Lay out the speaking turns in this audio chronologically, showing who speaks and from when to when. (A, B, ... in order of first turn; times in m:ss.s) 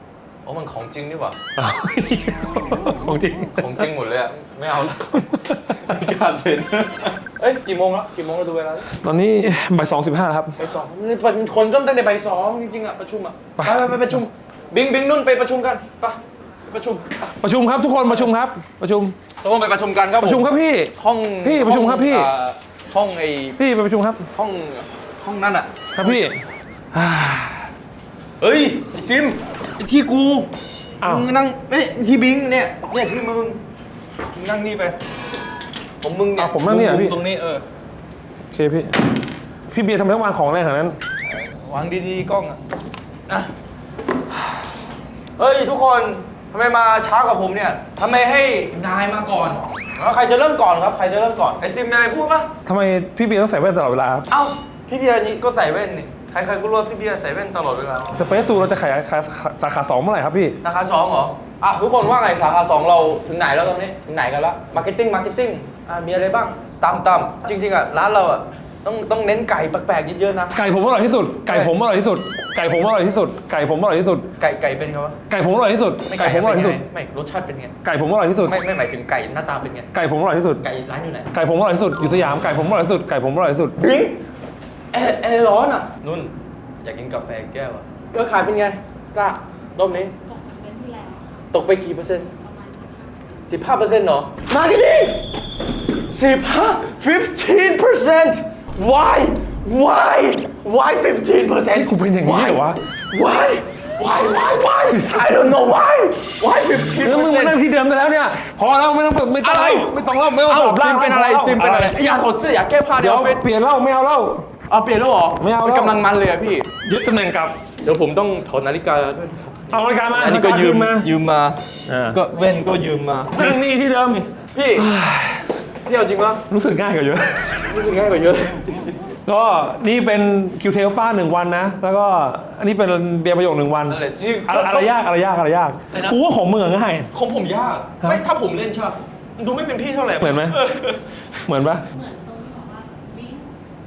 0:00.4-0:01.4 A
0:01.6-0:03.9 B
0:03.6-0:08.9 A
0:05.1-0:05.6 B
0:09.0-0:10.6 B
0:10.6-0:17.3 A
0:13.6-0:14.2 B
0:17.4-0:19.2 B
0:19.4-0:23.6 A
0:20.2-0:22.3 B
0:23.6-0:24.3 B
0:24.3-0:26.2 A
0:25.9-0:27.7 B
0:28.4-0:30.5 A
0:31.0-0:31.3 B
0:31.0-0:33.6 A
0:34.3-0:35.0 A
0:36.0-0:37.6 A
0:36.4-0:37.2 B
0:38.5-0:39.0 B
0:39.7-0:41.0 B
0:41.2-0:42.6 A
0:45.4-0:52.5 A
0:52.6-0:54.3 B
0:54.3-0:58.1 A
0:58.1-1:00.6 B
1:00.6-1:10.5 A
1:10.5-1:14.3 B
1:11.5-1:11.7 A
1:14.4-1:15.2 A
1:15.3-1:16.8 B
1:16.1-1:17.7 A
1:17.8-1:18.6 B
1:18.4-1:19.9 A
1:19.9-1:20.6 B
1:20.6-1:21.3 A
1:21.3-1:23.8 B
1:23.8-1:24.2 A
1:24.9-1:30.1 A
1:30.2-1:31.5 C
1:31.5-1:32.3 A
1:32.4-1:33.6 C
1:33.5-1:35.2 A
1:36.1-1:47.6 A
1:41.7-1:42.8 B
1:44.9-1:45.6 B
1:46.9-1:52.0 B
1:49.4-1:53.4 A
1:53.0-1:54.5 B
1:54.7-1:56.7 A
1:55.4-1:56.0 B
1:56.8-1:57.6 B
1:57.8-2:01.6 A
1:59.7-2:01.1 B
2:01.9-2:02.2 B
2:02.1-2:03.6 A
2:03.4-2:05.7 B
2:04.1-2:04.9 A
2:05.8-2:06.4 A
2:06.5-2:07.7 B
2:07.7-2:09.0 A
2:09.2-2:17.1 B
2:13.9-2:14.9 A
2:15.9-2:16.2 A
2:17.1-2:21.4 A
2:20.2-2:20.6 B
2:21.5-2:21.8 B
2:21.9-2:23.5 C